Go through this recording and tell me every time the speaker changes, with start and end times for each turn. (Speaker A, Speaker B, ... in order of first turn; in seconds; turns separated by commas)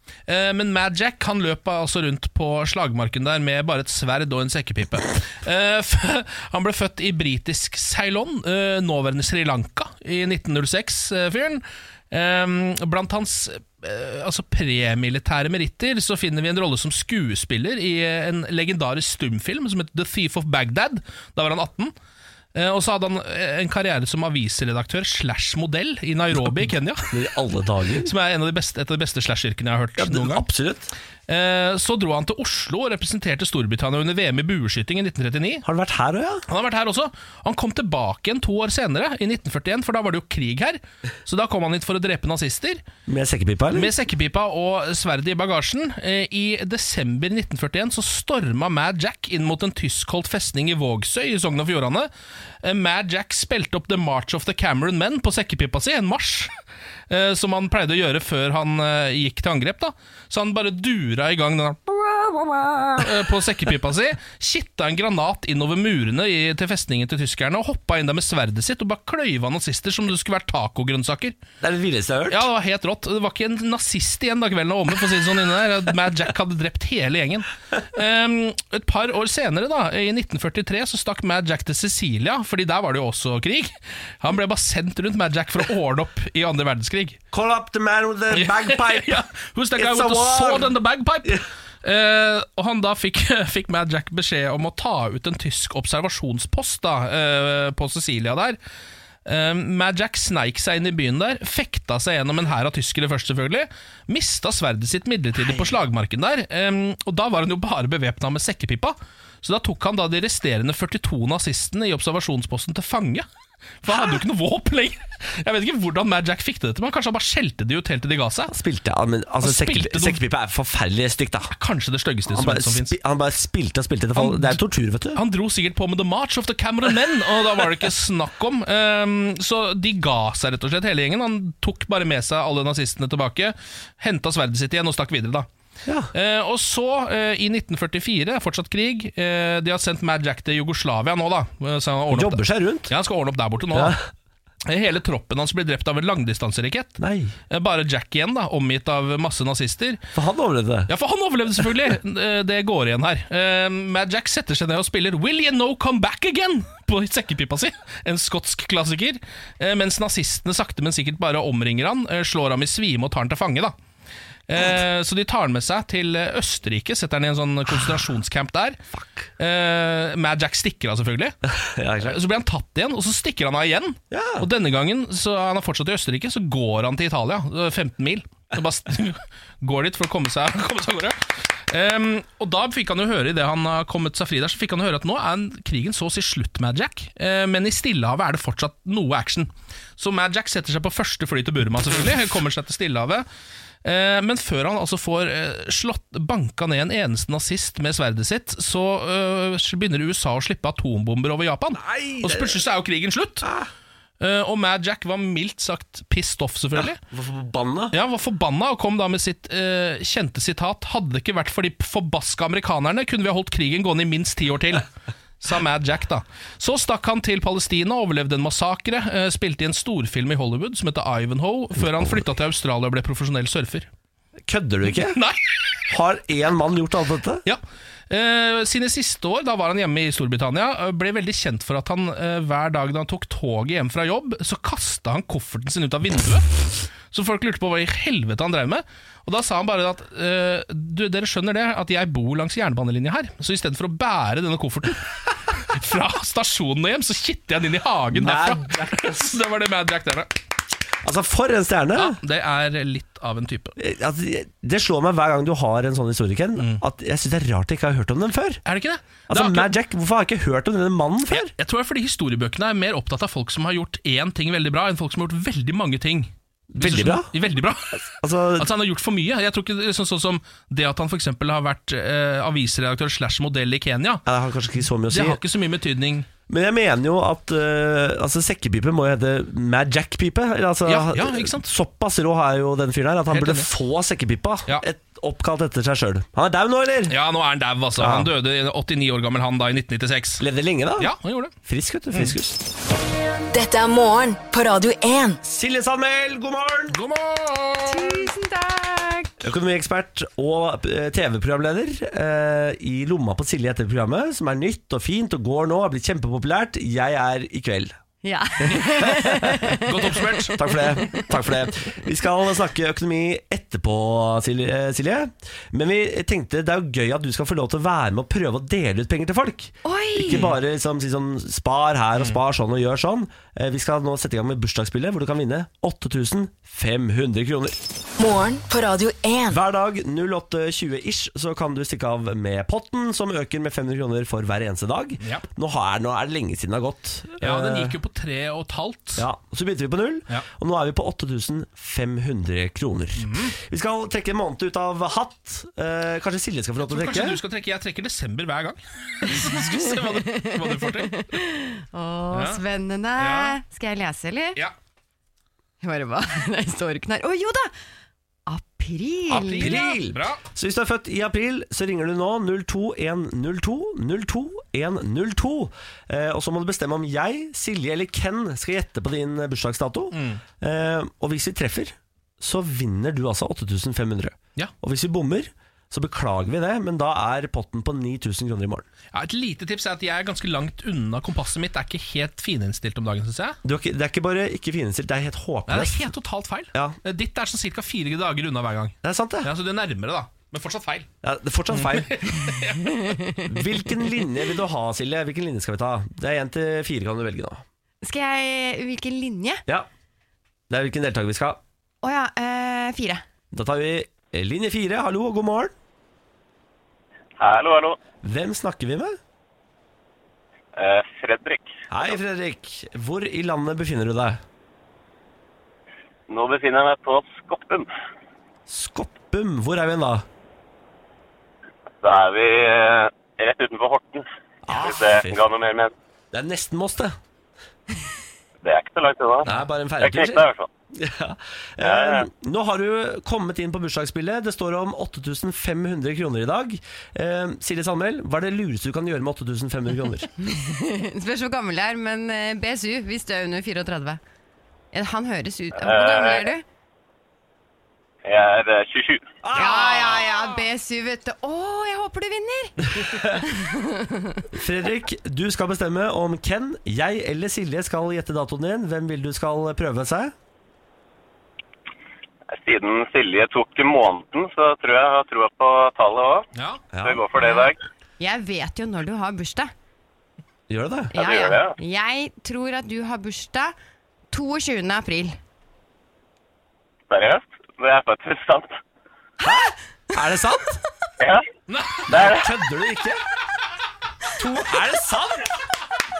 Speaker A: 0.3-21.9, Speaker A: 22.6-27.2, Speaker B: 26.4-28.1, Speaker A: 28.0-30.5, Speaker B: 30.0-30.9, Speaker A: 31.3-35.6, Speaker B: 35.6-36.5, Speaker A: 36.5-42.8, Speaker B: 43.1-43.9, Speaker A: 43.7-52.1, Speaker A: 52.6-56.5, Speaker A: 57.1-62.2, Speaker B: 62.2-63.0, Speaker A: 62.9-71.4, Speaker B: 71.6-72.4, Speaker A: 72.3-87.2, Speaker B: 87.3-89.2, Speaker A: 88.3-98.6, Speaker B: 89.8-91.4, Speaker A: 99.3-113.3, Speaker A: 113.8-118.5, Speaker B: 118.5-121.5, Speaker A: 119.4-120.2, Speaker A: 121.5-123.0, Speaker B: 122.3-125.2, Speaker A: 124.2-124.6, Speaker A: 125.2-135.5, Speaker B: 135.9-136.1, Speaker A: 136.1-144.0, Speaker B: 142.1-142.9, Speaker B: 143.7-144.0, Speaker A: 144.7-147.0, Speaker B: 147.0-147.3, Speaker A: 147.5-150.0, Speaker B: 150.1-150.9, Speaker A: 150.9-163.7, Speaker A: 164.5-168.8, Speaker B: 168.9-169.3, Speaker A: 169.4-171.3, Speaker B: 171.5-172.2, Speaker A: 172.0-193.3, Speaker B: 174.1-174.5, Speaker A: 193.8-203.5, Speaker B: 201.7-202.6, Speaker B: 203.4-203.7, Speaker A: 204.2-207.0, Speaker B: 207.1-208.0, Speaker A: 207.9-214.9, Speaker A: 215.4-223.9, Speaker B: 221.8-222.2, Speaker B: 224.5-225.2, Speaker A: 225.1-225.6, Speaker B: 225.9-227.4, Speaker A: 227.4-250.4, Speaker B: 248.1-249.3, Speaker B: 251.0-252.2, Speaker A: 251.9-253.8, Speaker B: 253.8-258.6, Speaker A: 256.6-256.8, Speaker A: 258.7-259.7, Speaker B: 259.3-261.5, Speaker A: 261.3-274.2, Speaker B: 266.7-267.3, Speaker B: 268.2-268.7, Speaker B: 274.3-275.4, Speaker A: 275.1-276.3, Speaker B: 276.5-287.2, Speaker A: 280.9-281.6, Speaker A: 283.3-283.7, Speaker A: 287.1-290.4, Speaker B: 288.0-288.3, Speaker B: 290.4-291.1, Speaker A: 291.0-291.5, Speaker B: 291.6-292.6, Speaker C: 293.5-295.4, Speaker B: 295.4-297.0, Speaker A: 296.9-298.2, Speaker D: 297.9-299.4, Speaker B: 299.4-308.0, Speaker D: 308.2-311.5, Speaker B: 308.7-309.7, Speaker A: 309.8-310.9, Speaker B: 310.5-327.8, Speaker D: 319.9-320.5, Speaker A: 320.3-320.6, Speaker C: 328.2-329.6, Speaker B: 329.5-338.0, Speaker A: 337.4-339.3, Speaker B: 339.2-347.4, Speaker A: 343.2-343.6, Speaker A: 346.8-351.3, Speaker D: 349.3-354.6, Speaker A: 352.3-352.6, Speaker A: 353.2-353.6, Speaker D: 355.8-357.7, Speaker D: 358.5-359.8, Speaker A: 359.3-360.4, Speaker B: 359.4-378.9, Speaker A: 370.1-370.4, Speaker A: 379.1-383.6, Speaker B: 383.6-386.1, Speaker A: 385.7-391.1, Speaker B: 389.0-389.5, Speaker B: 391.2-392.2, Speaker A: 391.7-393.1, Speaker D: 392.6-393.7, Speaker B: 393.5-397.6, Speaker D: 398.0-399.6, Speaker B: 400.7-401.6, Speaker D: 402.0-403.2, Speaker B: 403.5-405.7, Speaker E: 407.4-408.0, Speaker B: 408.2-409.2, Speaker E: 410.8-411.7, Speaker B: 411.9-414.4, Speaker E: 416.3-417.9, Speaker B: 418.7-420.2, Speaker E: 422.0-425.9, Speaker B: 424.6-425.4, Speaker B: 426.3-427.1, Speaker E: 428.6-429.5, Speaker B: 429.4-440.3, Speaker E: 430.0-430.7, Speaker E: 431.8-432.3, Speaker D: 440.4-444.2, Speaker D: 444.9-446.6, Speaker E: 445.8-446.5, Speaker E: 448.2-449.2, Speaker B: 449.4-450.4, Speaker D: 449.6-454.4, Speaker B: 453.0-453.4, Speaker B: 454.5-460.3, Speaker E: 462.5-466.5, Speaker A: 466.6-466.8, Speaker B: 466.9-467.2, Speaker E: 467.0-467.8, Speaker D: 467.4-469.7, Speaker B: 470.7-471.1, Speaker D: 471.1-473.8, Speaker E: 471.2-471.8, Speaker D: 474.3-475.4, Speaker E: 477.1-478.8, Speaker B: 479.4-480.8, Speaker E: 481.2-481.5, Speaker A: 481.7-482.2, Speaker E: 482.1-482.5, Speaker B: 482.1-483.2, Speaker B: 484.4-485.6